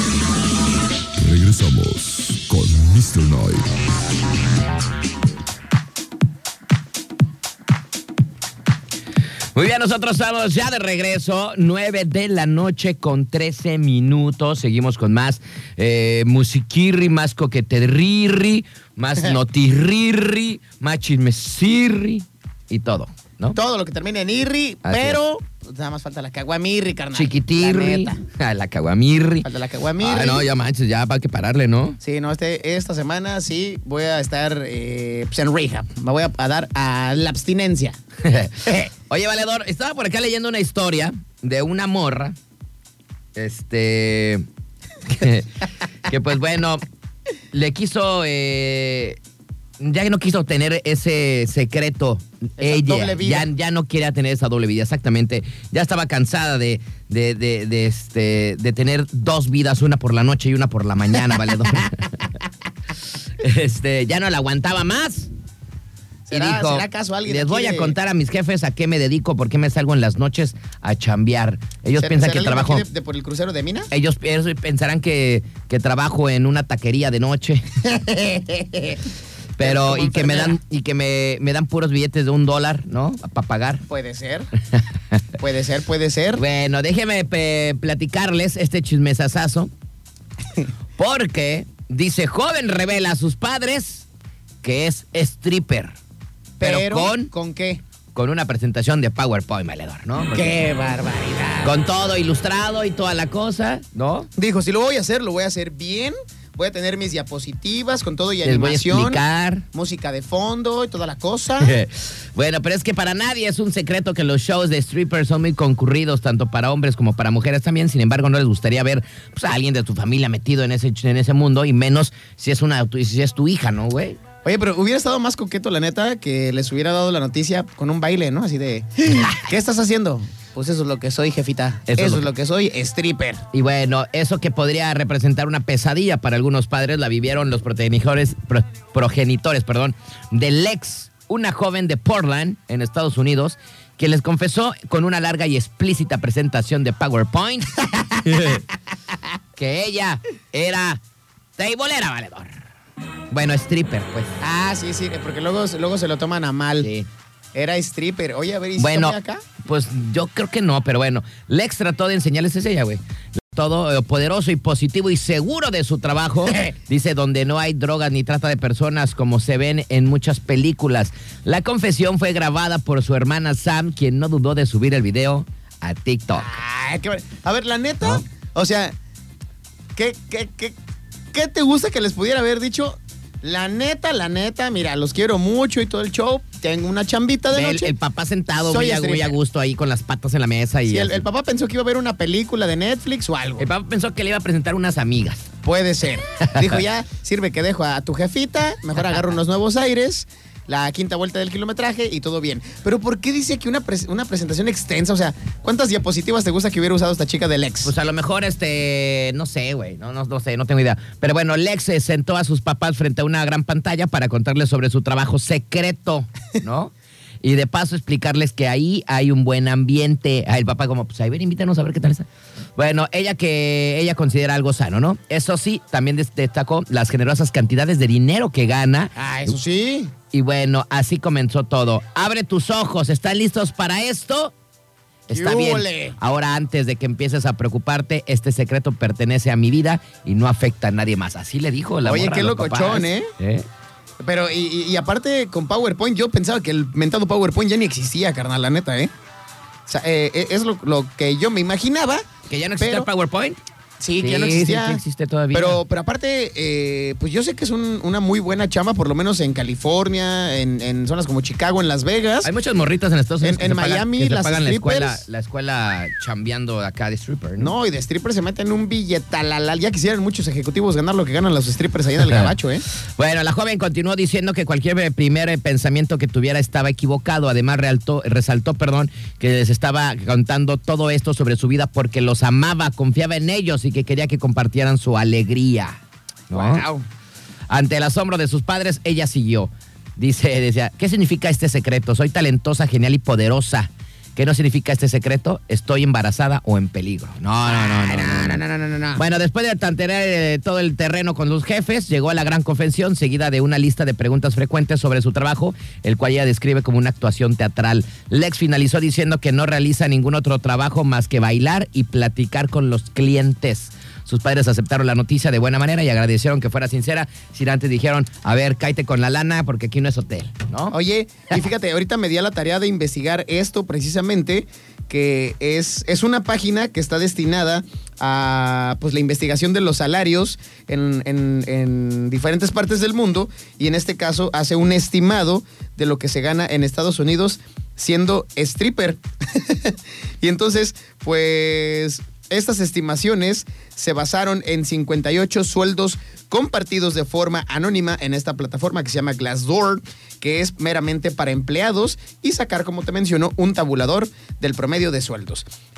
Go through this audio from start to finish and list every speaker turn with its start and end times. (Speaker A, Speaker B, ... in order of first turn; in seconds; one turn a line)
Speaker A: 1.2-3.7
Speaker B: 9.6-23.6
Speaker C: 23.6-28.2
Speaker B: 24.9-25.2
Speaker B: 27.1-29.5
Speaker C: 29.4-30.5
Speaker B: 30.0-32.0
Speaker C: 32.0-38.0
Speaker B: 38.2-42.4
Speaker B: 43.4-44.5
Speaker B: 45.1-46.8
Speaker B: 47.5-49.2
Speaker B: 49.8-62.2
Speaker C: 52.6-53.5
Speaker B: 63.4-65.3
Speaker C: 66.3-68.0
Speaker B: 66.3-72.8
Speaker C: 72.0-73.9
Speaker B: 73.9-77.7
Speaker C: 77.8-79.0
Speaker B: 79.6-83.8
Speaker C: 79.6-80.6
Speaker C: 83.9-84.5
Speaker C: 85.4-86.4
Speaker B: 86.4-89.7
Speaker B: 91.0-94.1
Speaker B: 94.6-96.0
Speaker C: 96.6-97.8
Speaker B: 96.6-97.3
Speaker B: 98.2-100.5
Speaker C: 100.3-101.8
Speaker B: 101.6-104.3
Speaker C: 104.4-109.2
Speaker B: 108.4-109.7
Speaker C: 109.7-111.8
Speaker B: 111.6-124.2
Speaker C: 124.5-133.4
Speaker B: 131.9-132.3
Speaker B: 133.5-148.6
Speaker B: 149.6-151.0
Speaker B: 151.6-152.5
Speaker B: 153.3-154.3
Speaker C: 154.4-156.9
Speaker B: 156.8-157.1
Speaker C: 157.5-159.4
Speaker B: 158.8-176.5
Speaker C: 176.4-178.9
Speaker C: 179.9-180.8
Speaker C: 181.3-187.9
Speaker B: 187.5-191.2
Speaker C: 188.7-189.3
Speaker C: 190.9-193.7
Speaker B: 193.6-195.5
Speaker C: 195.6-207.9
Speaker B: 196.4-196.7
Speaker B: 207.8-229.5
Speaker C: 229.2-230.1
Speaker B: 230.3-234.5
Speaker B: 235.3-243.7
Speaker C: 235.3-236.2
Speaker C: 242.1-243.3
Speaker C: 244.2-249.1
Speaker C: 249.9-252.2
Speaker B: 252.5-253.6
Speaker C: 252.8-253.1
Speaker C: 254.0-255.0
Speaker B: 254.2-255.8
Speaker C: 255.5-262.5
Speaker B: 262.4-267.7
Speaker C: 263.4-265.2
Speaker C: 267.6-272.9
Speaker B: 272.2-272.5
Speaker B: 273.2-286.0
Speaker B: 286.5-286.9
Speaker C: 286.5-287.1
Speaker B: 287.7-298.6
Speaker C: 297.6-299.2
Speaker B: 299.1-320.9
Speaker C: 320.9-355.7